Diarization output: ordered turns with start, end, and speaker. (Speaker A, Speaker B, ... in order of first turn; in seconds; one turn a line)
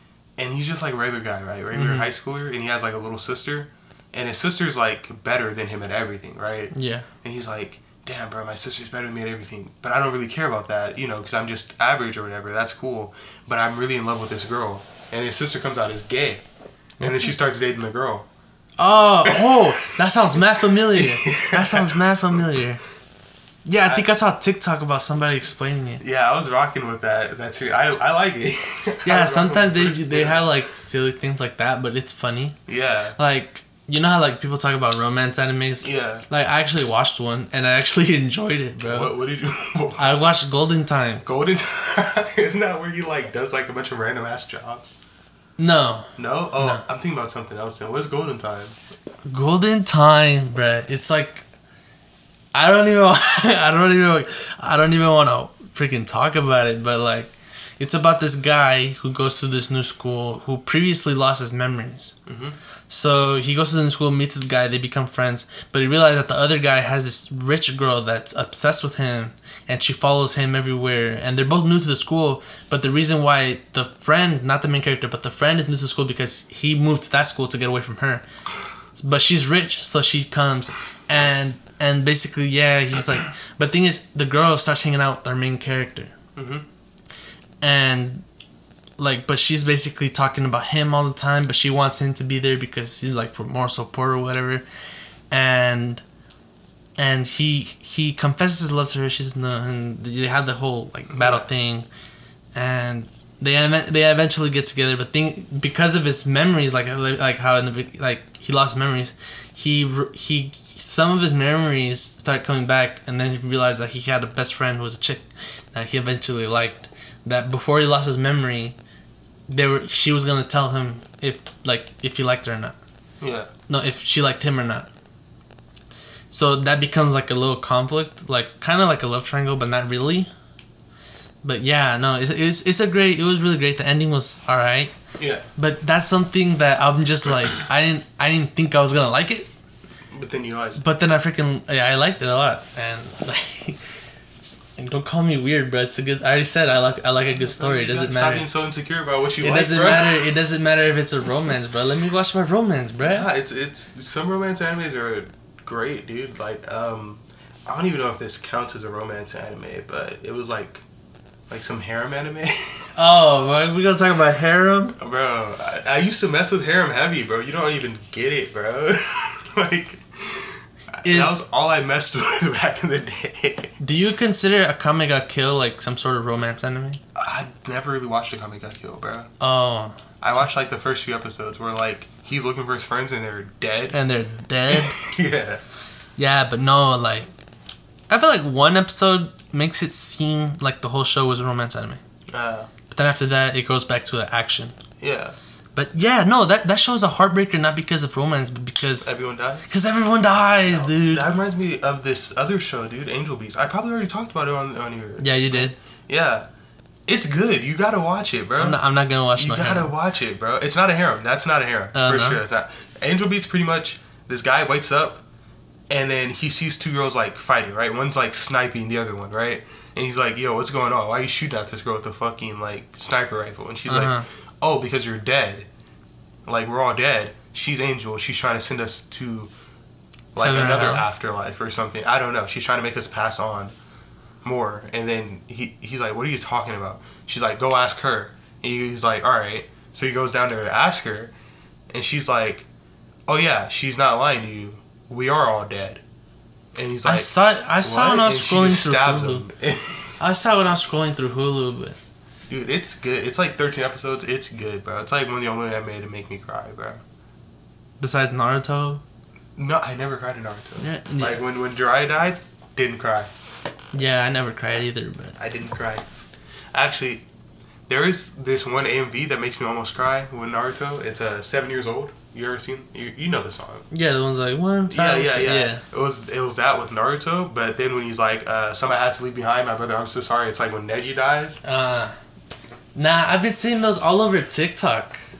Speaker A: 0.4-16.4
Speaker B: 1.7-2.1
Speaker B: 6.7-7.1
Speaker A: 17.0-18.3
Speaker B: 18.8-22.8
Speaker A: 19.2-22.6
Speaker B: 23.6-26.0
Speaker A: 23.8-24.1
Speaker A: 26.0-30.5
Speaker B: 29.0-32.6
Speaker A: 32.7-33.2
Speaker B: 33.2-39.1
Speaker A: 35.8-36.2
Speaker A: 38.8-40.3
Speaker B: 40.0-41.2
Speaker A: 41.2-45.0
Speaker B: 45.6-46.8
Speaker A: 46.1-48.8
Speaker B: 49.2-51.4
Speaker B: 52.5-62.1
Speaker A: 62.2-62.6
Speaker B: 62.9-78.2
Speaker B: 78.9-86.1
Speaker A: 86.3-86.6
Speaker B: 87.6-88.2
Speaker B: 89.0-94.6
Speaker B: 95.3-96.0
Speaker B: 97.0-101.9
Speaker A: 101.1-101.5
Speaker B: 102.5-118.8
Speaker B: 119.5-122.8
Speaker A: 123.2-123.5
Speaker B: 123.7-124.9
Speaker B: 126.3-130.3
Speaker B: 131.4-134.9
Speaker A: 135.2-135.5
Speaker B: 135.6-139.5
Speaker A: 140.1-140.8
Speaker B: 140.8-143.9
Speaker B: 144.8-148.5
Speaker A: 147.3-150.3
Speaker B: 149.4-153.3
Speaker A: 153.0-160.8
Speaker A: 161.5-162.9
Speaker B: 162.9-164.9
Speaker A: 165.0-173.7
Speaker B: 171.0-171.4
Speaker B: 173.8-177.0
Speaker A: 177.1-179.3
Speaker B: 179.4-180.0
Speaker A: 180.2-184.0
Speaker B: 183.9-185.0
Speaker A: 184.7-185.6
Speaker B: 186.2-187.3
Speaker B: 188.1-192.0
Speaker A: 192.3-192.7
Speaker B: 192.9-194.8
Speaker A: 195.0-195.4
Speaker B: 195.7-199.1
Speaker A: 199.0-199.7
Speaker B: 199.7-201.3
Speaker A: 200.7-206.5
Speaker B: 205.2-205.8
Speaker A: 207.1-208.8
Speaker B: 208.6-209.9
Speaker A: 209.3-215.2
Speaker B: 211.9-212.4
Speaker A: 215.9-225.7
Speaker B: 223.9-224.2
Speaker A: 226.5-229.5
Speaker A: 230.3-233.7
Speaker B: 230.4-231.1
Speaker A: 234.4-241.3
Speaker A: 241.9-242.7
Speaker A: 243.3-246.0
Speaker A: 246.7-250.2
Speaker B: 247.0-249.4
Speaker B: 250.2-252.0
Speaker A: 252.5-257.0
Speaker B: 258.0-259.0
Speaker A: 259.6-263.3
Speaker B: 260.8-261.4
Speaker B: 263.9-265.4
Speaker A: 265.4-266.1
Speaker A: 266.7-267.2
Speaker A: 267.9-273.9
Speaker B: 273.9-275.8
Speaker A: 274.9-281.6
Speaker B: 281.6-282.1
Speaker B: 282.9-285.2